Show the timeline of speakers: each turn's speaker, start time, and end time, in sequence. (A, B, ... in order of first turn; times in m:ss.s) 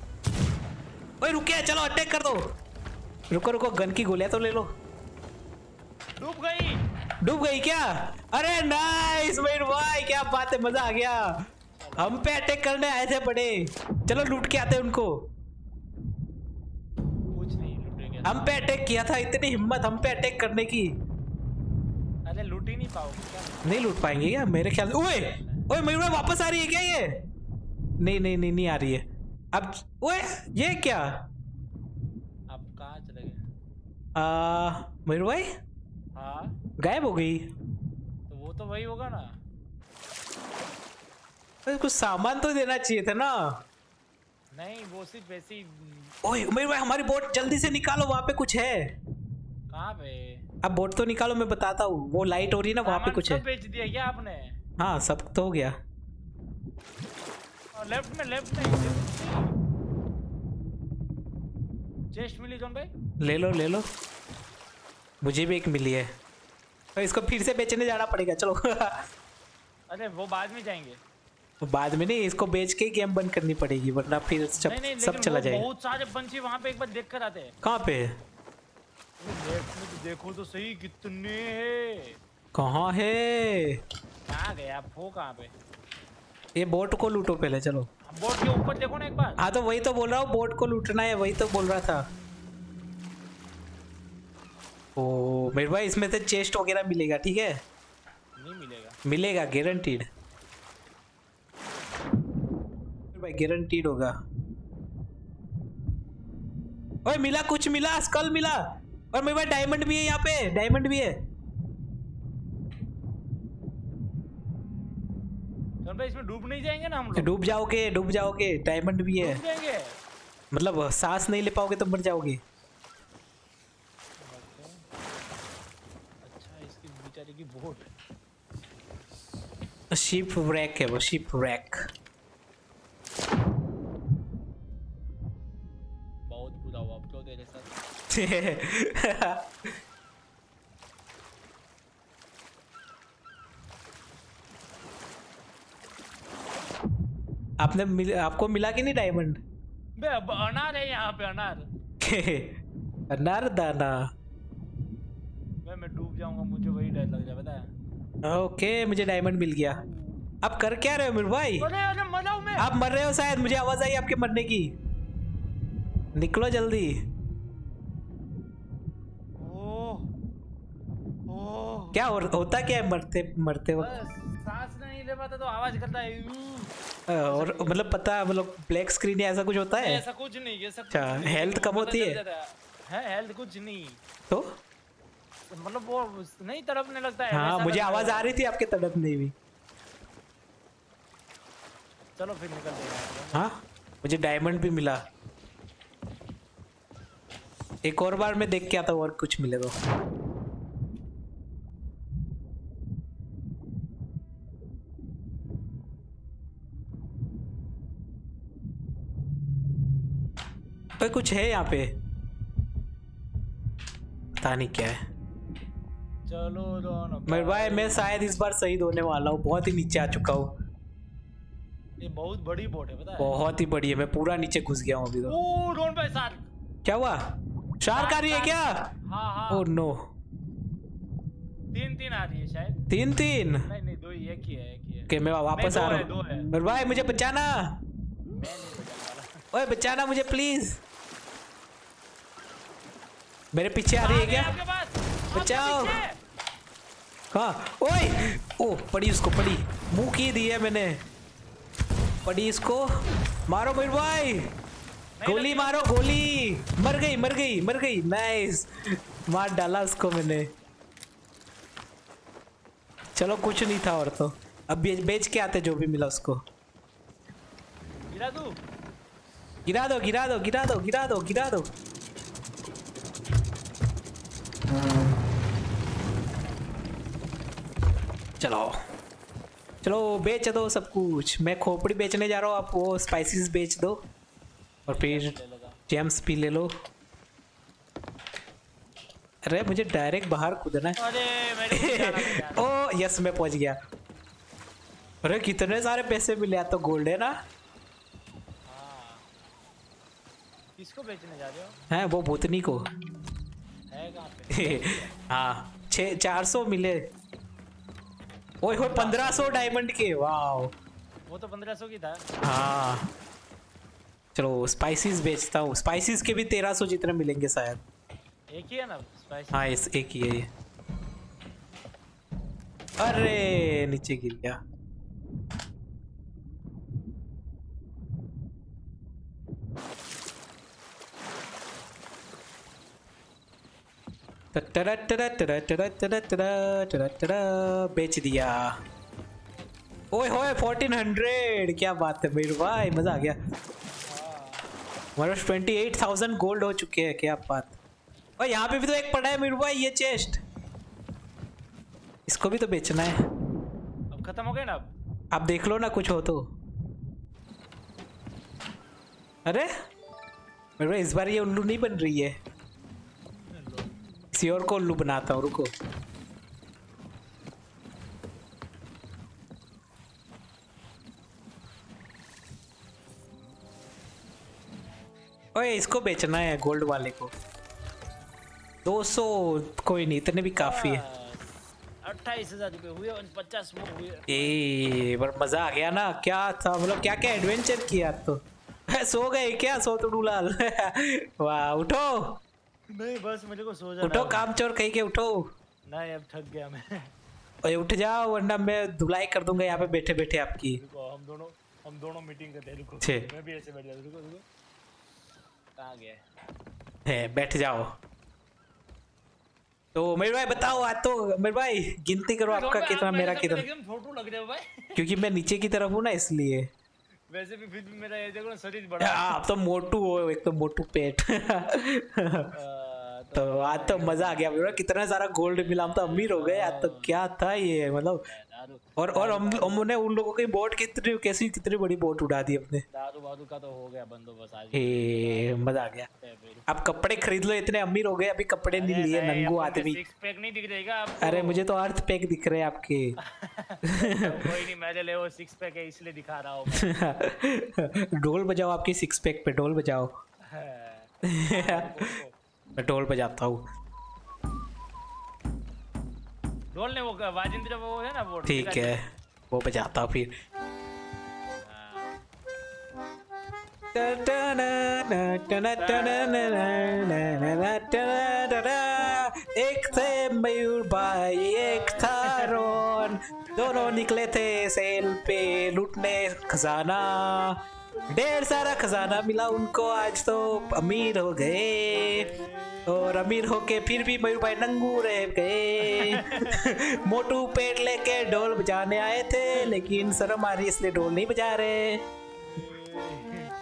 0:01.2-0:02.4 A
0:03.3-0:04.7 A
0:06.2-0:06.8 B
0:07.2-0:11.4 A
0:11.8-0:12.2 B
0:12.0-0:15.3 A
0:17.3-0:18.4 B
0:18.2-0:20.9 A
0:22.3-0:23.9 B
0:23.6-0:27.2 A
0:25.2-0:25.6 B
0:28.0-0:31.2 A
0:32.5-0:33.5 B
0:34.1-0:35.5 A
0:36.1-0:36.5 B
0:36.8-0:37.4 A
0:38.3-0:39.4 B
0:41.6-0:43.6 A
0:44.5-0:46.1 B
0:46.2-0:48.9 A
0:49.7-0:50.4 B
0:50.6-0:53.4 A
0:52.8-0:54.6 B
0:54.8-0:55.7 A
0:57.7-0:59.5 B
1:02.1-1:02.9 B
1:03.2-1:03.8 A
1:05.2-1:06.1 A
1:06.9-1:09.0 A
1:09.9-1:11.0 B
1:11.6-1:15.6 A
1:14.6-1:17.5 B
1:17.6-1:18.1 A
1:19.2-1:22.2 B
1:22.5-1:23.8 A
1:24.3-1:25.5 B
1:26.6-1:27.9 A
1:28.1-1:29.4 B
1:29.4-1:32.0 A
1:35.0-1:37.6 A
1:38.4-1:39.0 B
1:39.0-1:40.1 A
1:43.1-1:44.1 A
1:47.0-1:51.2 A
1:55.8-1:57.3 B
1:57.2-1:59.4 A
1:59.2-2:00.0 B
2:00.5-2:02.4 A
2:04.2-2:04.8 B
2:06.2-2:07.9 B
2:09.9-2:11.8 A
2:16.3-2:17.7 B
2:18.1-2:19.7 A
2:27.6-2:29.4 A
2:30.0-2:31.7 B
2:32.0-2:32.5 A
2:33.1-2:34.1 A
2:35.6-2:37.7 B
2:38.2-2:39.8 A
2:40.4-2:41.7 A
2:41.6-2:42.7 B
2:42.6-2:44.8 A
2:46.1-2:47.0 A
2:49.4-2:50.1 B
2:51.3-2:52.0 B
2:51.9-2:53.9 A
2:53.8-2:56.7 B
2:57.1-3:00.0 A
2:57.2-2:57.8 B
2:59.8-3:04.0 B
3:00.9-3:02.2 A
3:05.5-3:08.3 B
3:07.3-3:09.3 A
3:12.2-3:13.5 B
3:13.3-3:15.0 A
3:14.5-3:14.8 B
3:17.8-3:19.7 A
3:31.0-3:32.0 A
3:34.4-3:35.0 A
3:36.3-3:38.2 B
3:37.3-3:40.5 A
3:42.0-3:43.4 B
3:43.2-3:45.3 A
3:45.3-3:46.5 B
3:46.8-3:48.9 A
3:47.9-3:49.7 B
3:49.5-3:50.0 A
3:51.7-3:52.8 B
3:52.9-3:53.7 A
3:53.6-3:56.5 B
3:55.1-3:57.8 A
3:58.3-3:59.4 B
3:59.5-4:00.8 A
4:03.5-4:04.5 A
4:04.0-4:06.2 B
4:05.3-4:06.0 A
4:07.3-4:11.0 A
4:12.2-4:12.8 A
4:13.5-4:14.5 A
4:15.2-4:15.9 B
4:15.2-4:20.5 A
4:23.1-4:26.4 A
4:28.1-4:28.6 B
4:29.6-4:31.7 A
4:38.4-4:38.8 A
4:39.8-4:44.0 A
4:44.8-4:45.3 A
4:44.9-4:45.8 B
4:45.9-4:46.7 A
4:49.5-4:51.0 A
4:51.0-4:52.7 B
4:51.7-4:53.8 A
4:55.2-4:57.4 A
4:58.6-4:59.2 B
5:00.8-5:01.8 B
5:01.9-5:02.8 A
5:03.9-5:05.0 B
5:04.5-5:07.1 A
5:08.6-5:10.7 A
5:08.7-5:09.7 B
5:11.3-5:12.2 B
5:12.4-5:13.1 A
5:14.3-5:17.8 A
5:18.5-5:19.7 B
5:19.5-5:20.5 A
5:23.0-5:24.6 A
5:34.5-5:38.7 A
5:40.1-5:43.4 A
5:44.0-5:44.6 B
5:45.2-5:47.8 A
5:48.4-5:50.4 A
5:52.3-5:53.1 A
5:54.1-5:54.9 B
5:55.3-5:56.5 A
5:59.4-5:59.7 A
6:00.8-6:02.4 A
6:03.5-6:04.0 B
6:04.3-6:05.7 A
6:15.5-6:17.3 A
6:18.8-6:21.0 A
6:20.6-6:24.6 B
6:24.3-6:32.4 A
6:32.9-6:34.5 B
6:34.0-6:35.5 A
6:35.9-6:37.1 B
6:37.6-6:40.8 A
6:40.7-6:44.4 B
6:43.0-6:43.3 A
6:45.8-6:46.2 B
6:47.0-6:48.0 A
6:49.9-6:53.6 A
6:50.5-6:50.9 B
6:52.5-6:55.0 B
6:55.0-6:56.7 A
6:57.3-6:59.4 B
6:59.0-7:02.5 A
7:02.5-7:04.8 B
7:03.4-7:08.2 A
7:05.4-7:07.2 B
7:08.2-7:09.8 B
7:09.0-7:12.8 A
7:12.9-7:16.7 B
7:14.7-7:16.1 A
7:16.7-7:20.0 A
7:18.7-7:21.6 B
7:21.2-7:23.1 A
7:23.2-7:26.9 B
7:23.9-7:24.5 A
7:26.8-7:30.1 A
7:30.5-7:32.4 B
7:31.3-7:32.1 A
7:32.8-7:33.6 A
7:36.7-7:39.0 B
7:38.5-7:40.3 A
7:41.6-7:42.1 B
7:43.9-7:57.6 A
7:45.8-7:46.5 B
7:51.6-7:52.8 B
7:53.6-7:54.1 B
7:58.1-8:02.3 A
8:01.9-8:02.9 B
8:02.9-8:12.0 A
8:05.8-8:06.6 B
8:12.5-8:13.5 B